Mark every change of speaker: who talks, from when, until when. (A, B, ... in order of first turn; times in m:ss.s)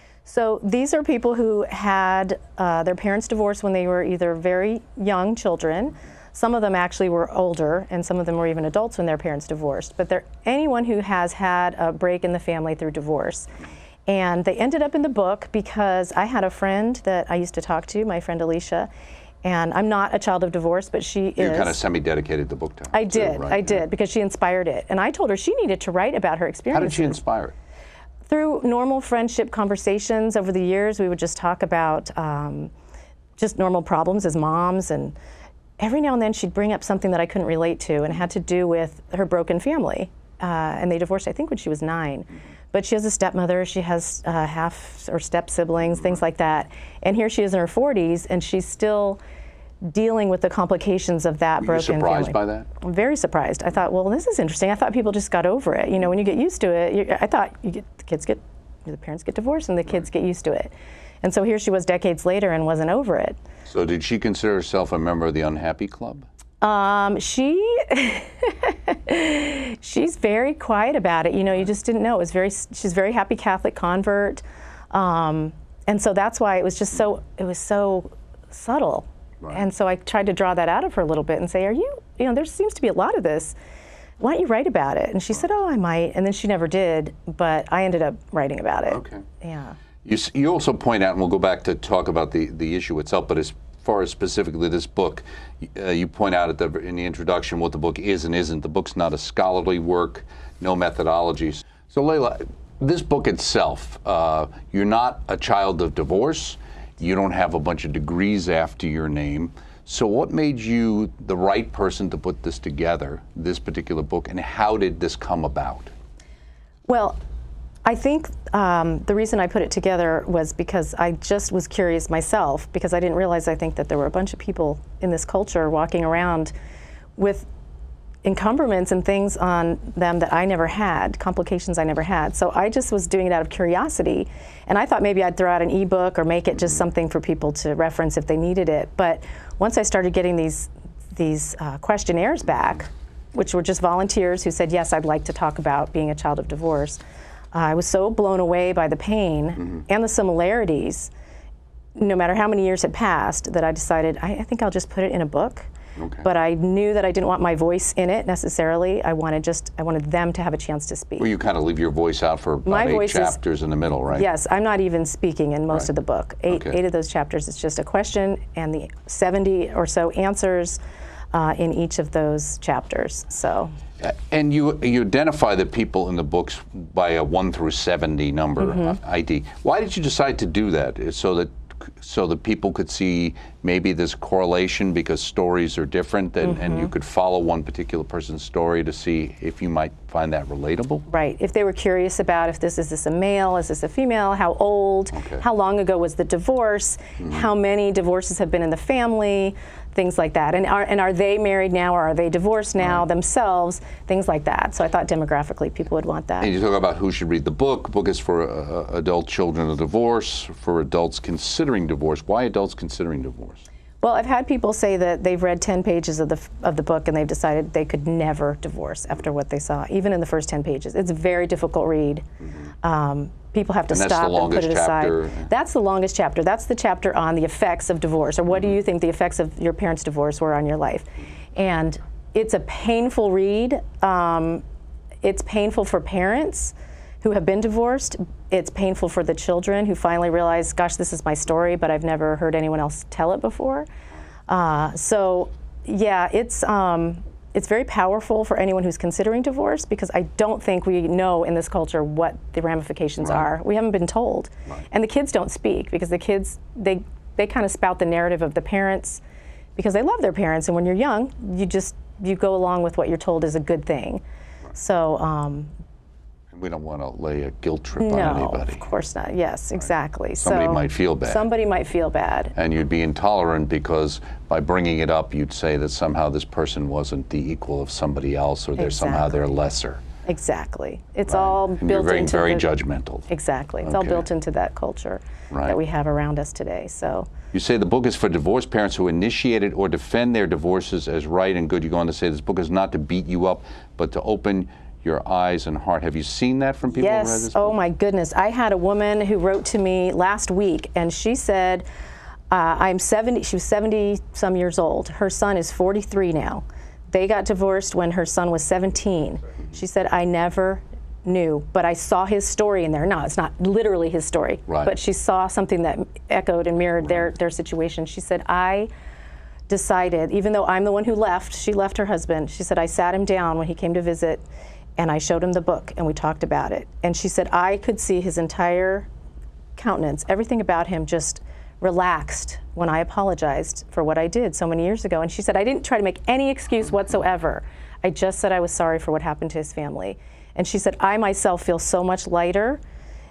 0:00.2-0:13.5 A
0:14.1-0:18.9 A
0:19.4-0:21.8 A
0:21.4-0:23.8 B
0:22.9-0:27.2 A
0:26.7-0:27.5 B
0:28.3-0:32.7 A
0:33.4-0:35.2 A
0:35.8-0:49.2 A
0:49.8-1:03.4 A
0:51.6-0:52.7 B
1:03.7-1:06.3 B
1:06.6-1:23.6 A
1:24.2-1:29.8 A
1:28.9-1:29.2 B
1:30.0-1:55.9 B
1:56.9-1:57.2 A
1:57.8-2:06.5 A
2:07.2-2:07.5 A
2:08.2-2:27.0 A
2:27.5-2:31.1 A
2:32.0-2:35.7 A
2:36.0-2:36.3 B
2:36.2-2:41.3 A
2:41.2-2:44.3 B
2:42.6-2:43.4 A
2:44.1-2:50.8 A
2:46.5-2:46.8 B
2:51.3-2:53.7 A
2:54.0-3:11.0 B
3:06.4-3:06.9 A
3:11.1-3:26.5 A
3:15.1-3:15.4 B
3:17.2-3:17.4 B
3:26.4-3:33.6 B
3:34.0-3:42.2 A
3:42.8-3:54.6 A
3:43.9-3:45.5 B
3:55.2-4:03.9 A
4:04.5-4:19.2 A
4:13.2-4:13.5 B
4:19.8-4:24.2 A
4:24.7-4:25.7 A
4:26.5-4:28.8 B
4:28.0-4:32.5 A
4:30.4-4:31.4 B
4:32.6-4:40.0 B
4:38.8-4:39.4 A
4:40.2-4:42.7 A
4:41.3-4:43.3 B
4:43.3-4:47.3 A
4:43.8-4:44.2 B
4:45.5-4:45.8 B
4:47.5-4:57.7 B
4:56.9-5:01.8 A
5:02.5-5:18.9 A
5:14.7-5:14.9 B
5:19.7-5:24.4 A
5:25.0-5:29.1 A
5:29.8-5:42.8 A